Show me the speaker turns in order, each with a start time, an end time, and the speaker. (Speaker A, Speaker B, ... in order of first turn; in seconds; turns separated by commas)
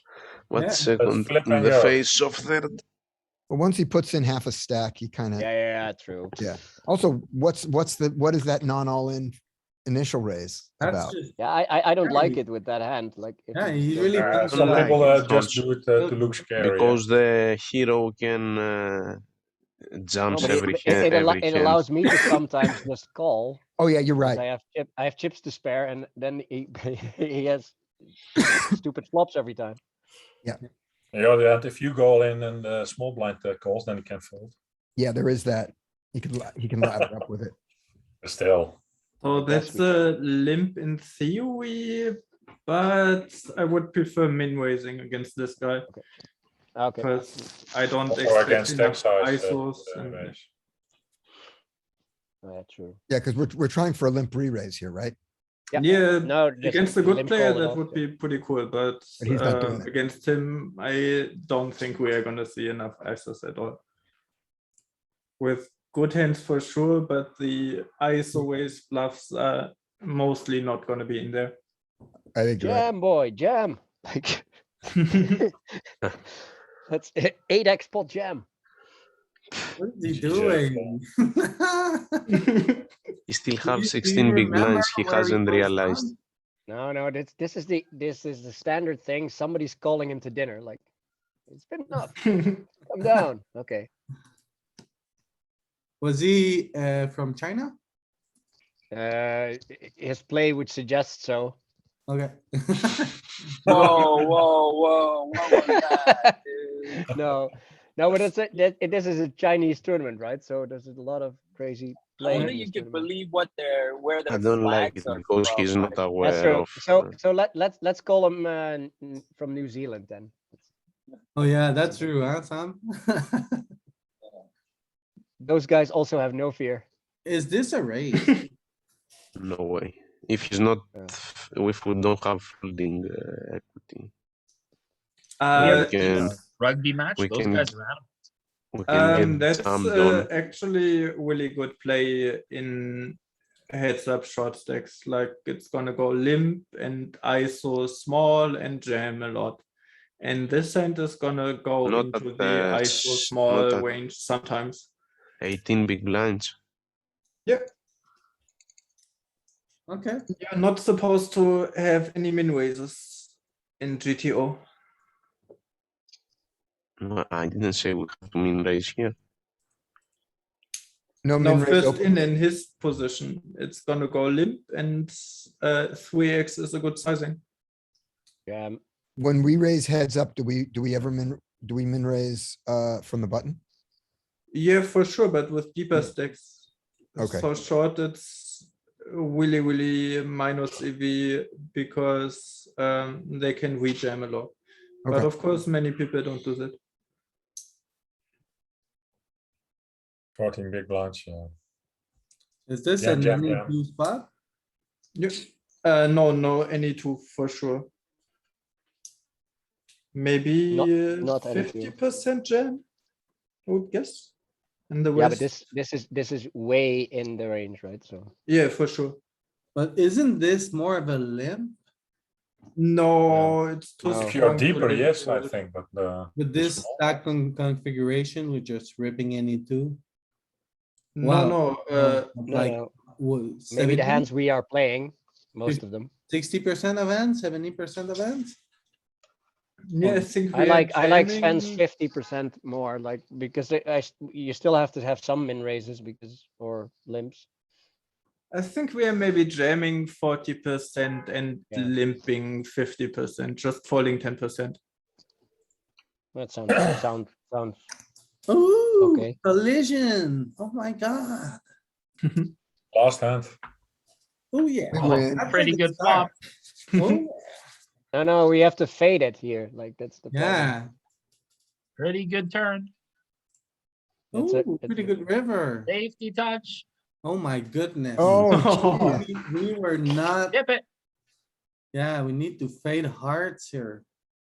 Speaker A: 0.5-2.8, Speaker B: 0.5-0.9, Speaker C: 0.9-2.0, Speaker D: 3.5-5.5, Speaker E: 5.4-6.4, Speaker D: 6.4-11.2, Speaker B: 10.8-11.3, Speaker E: 11.4-15.1, Speaker B: 12.0-12.4, Speaker B: 13.5-15.1, Speaker C: 14.2-17.0, Speaker A: 14.5-15.6, Speaker B: 16.0-16.2, Speaker A: 16.6-19.2, Speaker A: 19.9-21.9, Speaker E: 20.3-23.6, Speaker D: 23.8-24.4, Speaker E: 24.2-27.8, Speaker E: 28.5-29.8, Speaker C: 31.1-34.5, Speaker D: 35.0-37.5, Speaker C: 38.2-38.8, Speaker F: 39.2-45.9, Speaker E: 39.3-40.1, Speaker E: 46.8-47.1, Speaker F: 47.0-50.3, Speaker C: 48.1-50.5, Speaker E: 52.4-53.0, Speaker D: 53.1-55.2, Speaker E: 55.7-58.0, Speaker F: 55.7-63.8, Speaker D: 59.2-59.9, Speaker F: 65.4-71.6, Speaker D: 72.3-72.9, Speaker E: 72.6-74.5, Speaker E: 75.2-75.5, Speaker E: 76.9-78.5, Speaker B: 79.8-82.2, Speaker C: 80.1-80.9, Speaker F: 82.3-82.9, Speaker A: 83.3-86.1, Speaker B: 83.6-86.1, Speaker E: 86.7-90.8, Speaker E: 91.5-93.9, Speaker F: 92.2-92.6, Speaker B: 96.0-97.8, Speaker E: 98.9-101.6, Speaker B: 102.1-103.2, Speaker G: 103.7-107.0, Speaker C: 103.7-104.2, Speaker E: 105.5-106.3, Speaker E: 106.9-113.0, Speaker G: 112.2-116.0, Speaker A: 114.3-117.1, Speaker E: 116.2-120.5, Speaker B: 121.4-123.7, Speaker E: 125.4-126.9, Speaker B: 127.2-128.2, Speaker F: 128.1-128.5, Speaker A: 129.4-134.1, Speaker F: 135.4-136.0, Speaker A: 135.6-136.4, Speaker H: 135.6-138.1, Speaker A: 137.2-137.7, Speaker A: 138.7-140.3, Speaker F: 138.9-143.2, Speaker F: 143.7-149.6, Speaker F: 150.2-154.9, Speaker A: 151.8-153.9, Speaker A: 155.4-156.6, Speaker B: 159.9-160.2, Speaker F: 160.3-164.6, Speaker A: 167.0-169.2, Speaker D: 171.2-172.0, Speaker F: 171.4-177.4, Speaker E: 178.5-178.8, Speaker D: 179.2-183.6, Speaker F: 184.5-194.6, Speaker D: 187.2-187.5, Speaker F: 195.1-196.8, Speaker C: 200.4-201.5, Speaker B: 202.7-204.3, Speaker C: 203.0-203.7, Speaker F: 205.2-207.9, Speaker F: 210.1-212.8, Speaker E: 210.7-211.9, Speaker F: 213.7-214.3, Speaker F: 214.9-215.6, Speaker E: 215.2-218.3, Speaker F: 218.5-219.2, Speaker B: 219.8-221.8, Speaker F: 222.8-225.1, Speaker E: 224.1-224.3, Speaker C: 224.1-227.2, Speaker B: 225.1-225.5, Speaker B: 226.4-230.0, Speaker F: 231.2-232.5, Speaker B: 231.2-234.3, Speaker E: 232.5-232.9, Speaker E: 233.7-236.1, Speaker B: 235.7-238.6, Speaker F: 239.9-241.8, Speaker E: 240.0-247.5, Speaker F: 248.5-254.8, Speaker E: 256.3-257.8, Speaker B: 258.5-261.6, Speaker E: 259.0-259.4, Speaker F: 262.2-262.5, Speaker C: 262.9-263.6, Speaker B: 264.5-266.3, Speaker D: 264.9-265.6, Speaker H: 265.0-266.3, Speaker F: 266.9-267.2, Speaker B: 267.0-267.4, Speaker E: 268.1-270.7, Speaker B: 270.3-270.9, Speaker H: 272.0-272.9, Speaker E: 274.3-275.1, Speaker B: 274.3-275.9, Speaker H: 275.9-276.8, Speaker B: 277.2-278.4, Speaker D: 278.2-279.2, Speaker F: 278.4-279.3, Speaker B: 279.1-280.6, Speaker H: 280.5-280.8, Speaker B: 281.9-284.1